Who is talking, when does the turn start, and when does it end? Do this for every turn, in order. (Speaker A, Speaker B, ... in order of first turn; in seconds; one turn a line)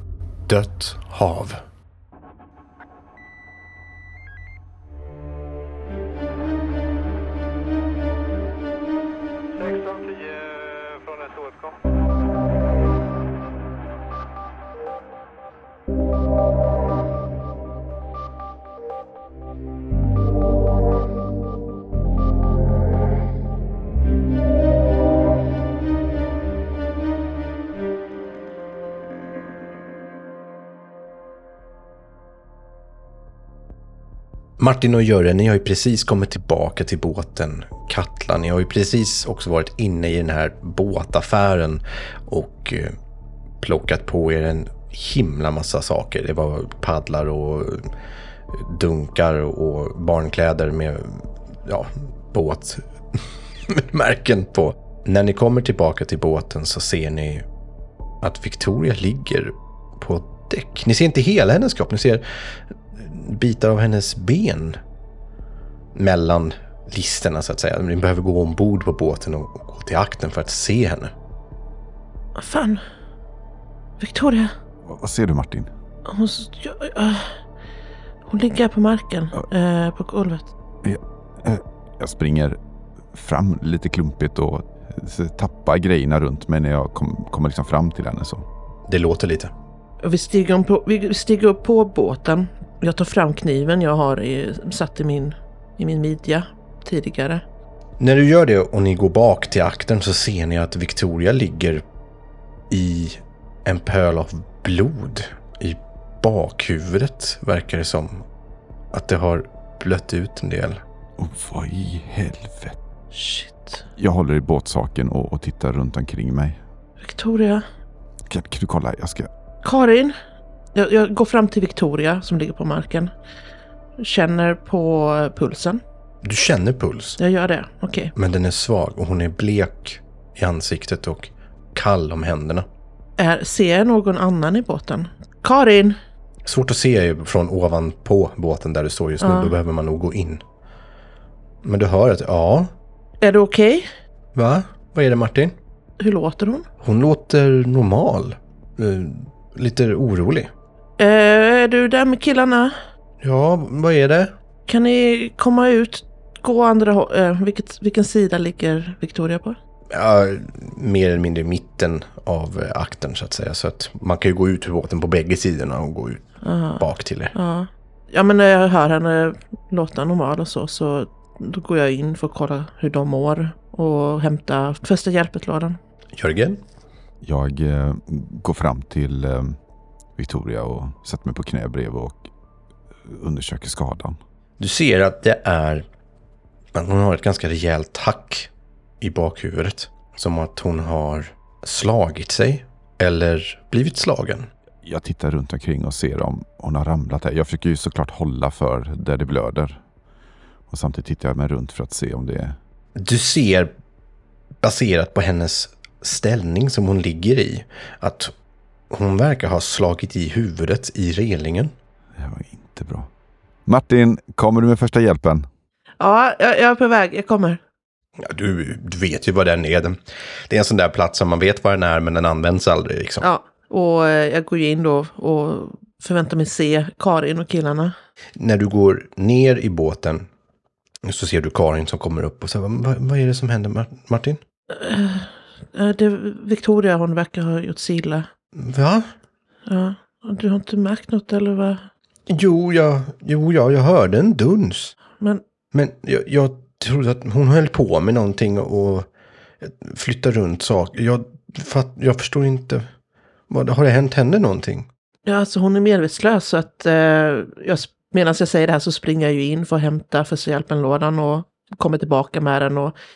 Speaker A: 0.5-1.6
Speaker A: 34.6-43.0
Speaker A: 43.6-47.9
Speaker A: 48.5-57.5
Speaker A: 58.2-62.2
Speaker A: 62.9-64.8
Speaker A: 66.0-71.1
Speaker B: 72.4-72.8
Speaker B: 74.0-74.5
Speaker C: 74.8-75.7
Speaker B: 76.1-77.4
Speaker B: 78.3-80.5
Speaker C: 80.8-82.6
Speaker C: 83.1-88.5
Speaker A: 88.9-89.5
Speaker B: 90.0-97.4
Speaker A: 98.0-101.8
Speaker A: 102.7-108.3
Speaker A: 108.9-110.8
Speaker C: 111.2-112.8
Speaker B: 113.1-113.9
Speaker C: 114.0-116.6
Speaker B: 117.0-117.6
Speaker C: 118.3-119.3
Speaker B: 119.6-120.2
Speaker B: 120.7-123.1
Speaker B: 124.0-125.8
Speaker A: 126.2-127.2
Speaker B: 127.2-128.1
Speaker A: 128.2-132.7
Speaker B: 133.2-136.0
Speaker A: 136.5-140.4
Speaker B: 139.2-139.5
Speaker A: 141.6-142.7
Speaker B: 143.2-143.9
Speaker A: 144.3-145.5
Speaker B: 146.0-146.7
Speaker A: 146.8-150.5
Speaker B: 151.0-152.8
Speaker A: 153.2-154.3
Speaker B: 154.7-159.6
Speaker A: 159.9-166.3
Speaker B: 166.4-175.8
Speaker A: 166.8-167.3
Speaker A: 176.2-176.6
Speaker C: 177.2-179.6
Speaker C: 180.2-182.2
Speaker C: 183.1-184.2
Speaker A: 184.6-185.9
Speaker A: 186.8-188.5
Speaker A: 189.0-194.5
Speaker C: 194.8-199.8
Speaker C: 200.7-202.6
Speaker A: 203.0-203.7
Speaker A: 204.6-208.3
Speaker A: 208.9-211.7
Speaker C: 212.2-213.1
Speaker C: 213.7-215.5
Speaker B: 216.0-217.6
Speaker A: 218.2-220.0
Speaker A: 220.5-223.2
Speaker B: 223.2-227.9
Speaker A: 228.4-230.3
Speaker A: 231.1-234.4
Speaker B: 234.7-238.3
Speaker A: 238.6-239.1
Speaker B: 239.7-241.9
Speaker A: 242.3-244.9
Speaker A: 245.7-249.1
Speaker A: 249.6-252.9
Speaker A: 253.5-254.9
Speaker B: 255.3-262.9